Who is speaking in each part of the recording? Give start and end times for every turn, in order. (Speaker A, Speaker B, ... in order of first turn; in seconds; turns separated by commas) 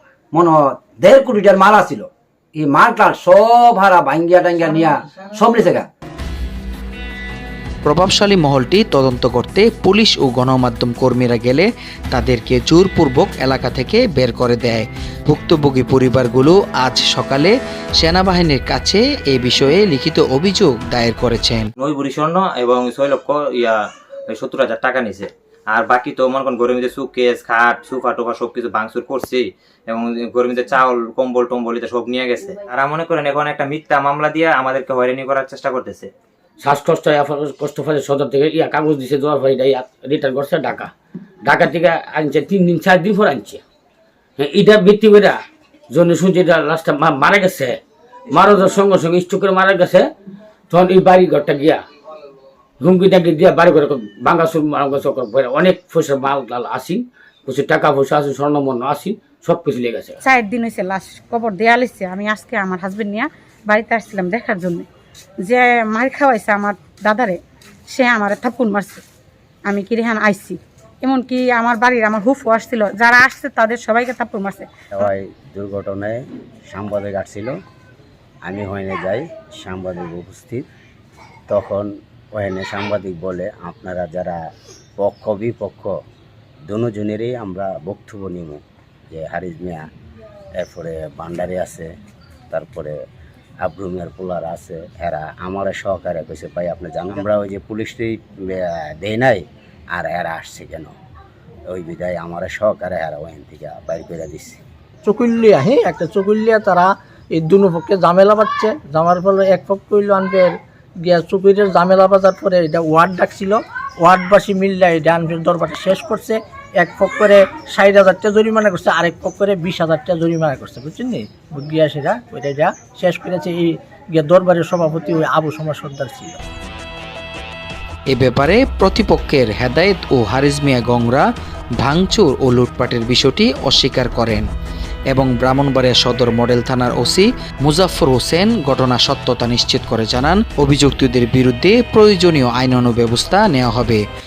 Speaker A: 0.3-5.9, Speaker B: 7.8-21.7, Speaker C: 21.8-36.1, Speaker D: 36.6-40.9, Speaker D: 41.4-43.6, Speaker D: 44.4-45.4, Speaker D: 45.9-47.8, Speaker D: 48.3-50.1, Speaker D: 50.7-51.8, Speaker D: 52.8-60.2, Speaker E: 60.3-64.8, Speaker E: 65.5-67.3, Speaker E: 67.9-69.0, Speaker E: 69.7-74.6, Speaker F: 74.9-77.5, Speaker F: 78.4-80.7, Speaker F: 81.5-84.4, Speaker F: 85.0-85.9, Speaker F: 86.7-89.9, Speaker F: 90.6-91.9, Speaker F: 92.5-92.9, Speaker F: 93.6-100.9, Speaker F: 101.7-104.6, Speaker G: 105.0-126.4, Speaker B: 128.1-131.3, Speaker B: 131.8-134.5, Speaker B: 135.1-144.0